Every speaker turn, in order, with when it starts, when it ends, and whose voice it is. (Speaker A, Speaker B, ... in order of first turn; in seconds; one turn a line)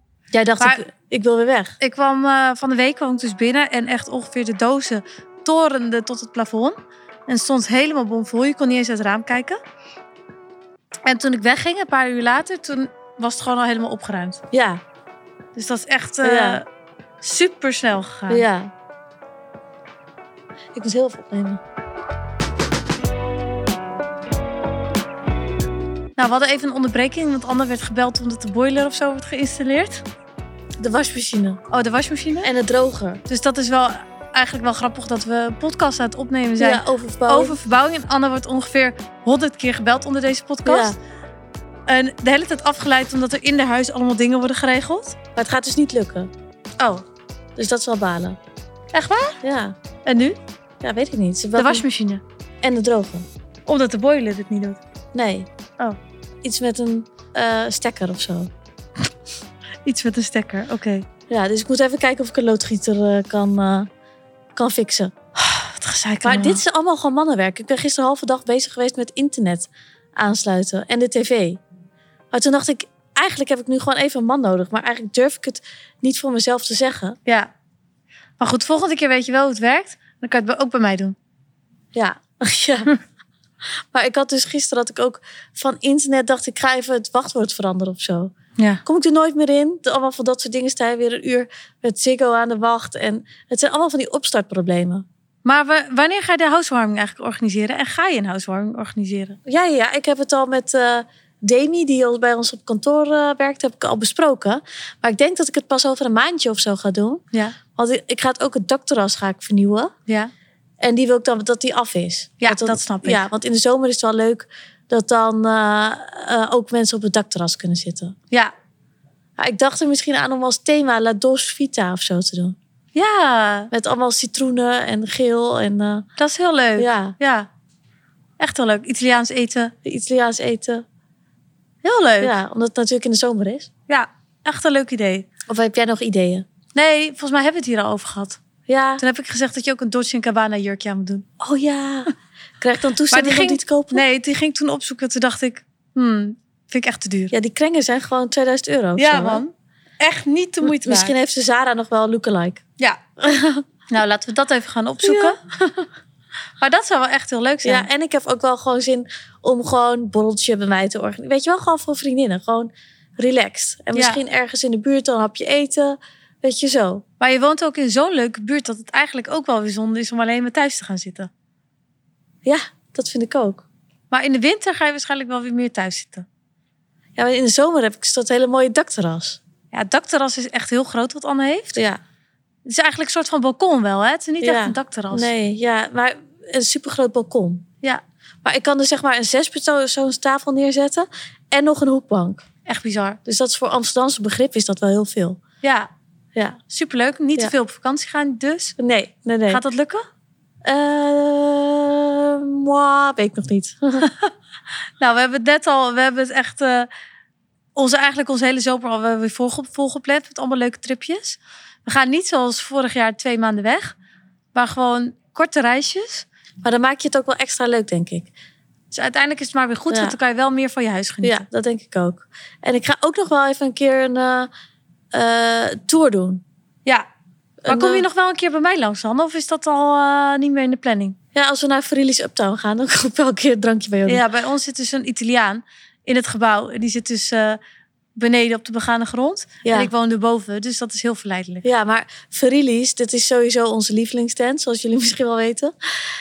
Speaker A: 0.3-1.8
Speaker B: 1.8-9.6
Speaker B: 11.1-14.4
Speaker A: 14.5-14.8
Speaker B: 15.6-16.6
Speaker A: 16.2-16.6
Speaker B: 17.2-18.4
Speaker A: 18.3-18.7
Speaker A: 20.8-21.6
Speaker B: 26.2-30.0
Speaker A: 30.8-31.6
Speaker B: 31.7-32.5
Speaker A: 32.4-33.2
Speaker B: 33.3-41.0
Speaker A: 36.6-37.6
Speaker A: 40.6-41.0
Speaker B: 41.9-45.2
Speaker A: 45.4-46.3
Speaker A: 47.6-48.4
Speaker B: 48.9-49.4
Speaker A: 49.4-49.8
Speaker B: 50.1-50.4
Speaker A: 50.8-51.9
Speaker B: 51.6-52.2
Speaker A: 52.6-53.3
Speaker B: 53.7-54.8
Speaker A: 55.1-55.5
Speaker A: 56.4-58.5
Speaker B: 59.9-61.1
Speaker A: 61.3-63.9
Speaker A: 64.5-65.1
Speaker B: 65.4-66.6
Speaker A: 66.2-71.6
Speaker A: 72.3-77.2
Speaker B: 77.3-77.5
Speaker B: 78.4-81.2
Speaker A: 82.0-82.9
Speaker A: 83.9-88.3
Speaker A: 88.8-95.0
Speaker B: 95.5-99.4
Speaker A: 99.5-107.2
Speaker A: 107.8-109.9
Speaker A: 110.8-118.2
Speaker B: 112.4-113.2
Speaker A: 119.4-122.6
Speaker B: 123.0-123.7
Speaker A: 123.7-126.0
Speaker B: 126.2-127.5
Speaker A: 126.8-127.2
Speaker B: 128.4-129.7
Speaker A: 129.8-130.8
Speaker B: 131.8-132.4
Speaker A: 132.2-133.7
Speaker B: 133.9-135.3
Speaker A: 135.5-136.5
Speaker B: 136.8-138.4
Speaker A: 138.7-139.0
Speaker B: 139.0-141.3
Speaker A: 141.4-144.0
Speaker B: 143.1-147.3
Speaker A: 147.3-149.4
Speaker B: 149.0-151.2
Speaker A: 150.6-152.6
Speaker A: 153.2-153.6
Speaker B: 153.9-155.9
Speaker A: 155.0-155.4
Speaker B: 156.6-157.9
Speaker A: 157.6-167.0
Speaker B: 163.9-164.2
Speaker B: 167.2-171.3
Speaker A: 172.4-173.7
Speaker B: 174.1-176.3
Speaker A: 177.2-179.4
Speaker B: 179.7-181.8
Speaker A: 181.8-182.0
Speaker B: 182.7-185.3
Speaker A: 184.4-187.7
Speaker A: 188.4-192.4
Speaker B: 192.7-193.2
Speaker A: 193.3-195.4
Speaker B: 195.6-195.9
Speaker B: 196.7-198.8
Speaker A: 198.8-199.6
Speaker B: 199.5-200.1
Speaker A: 200.6-204.1
Speaker B: 204.0-204.3
Speaker B: 205.0-206.9
Speaker B: 207.8-213.9
Speaker B: 214.5-216.3
Speaker A: 216.6-218.3
Speaker B: 218.9-221.4
Speaker A: 219.9-220.2
Speaker A: 221.2-224.5
Speaker A: 225.1-226.4
Speaker A: 227.6-228.1
Speaker B: 227.7-231.2
Speaker A: 231.3-234.2
Speaker B: 234.1-237.6
Speaker B: 238.2-241.7
Speaker A: 239.7-239.9
Speaker A: 241.6-245.7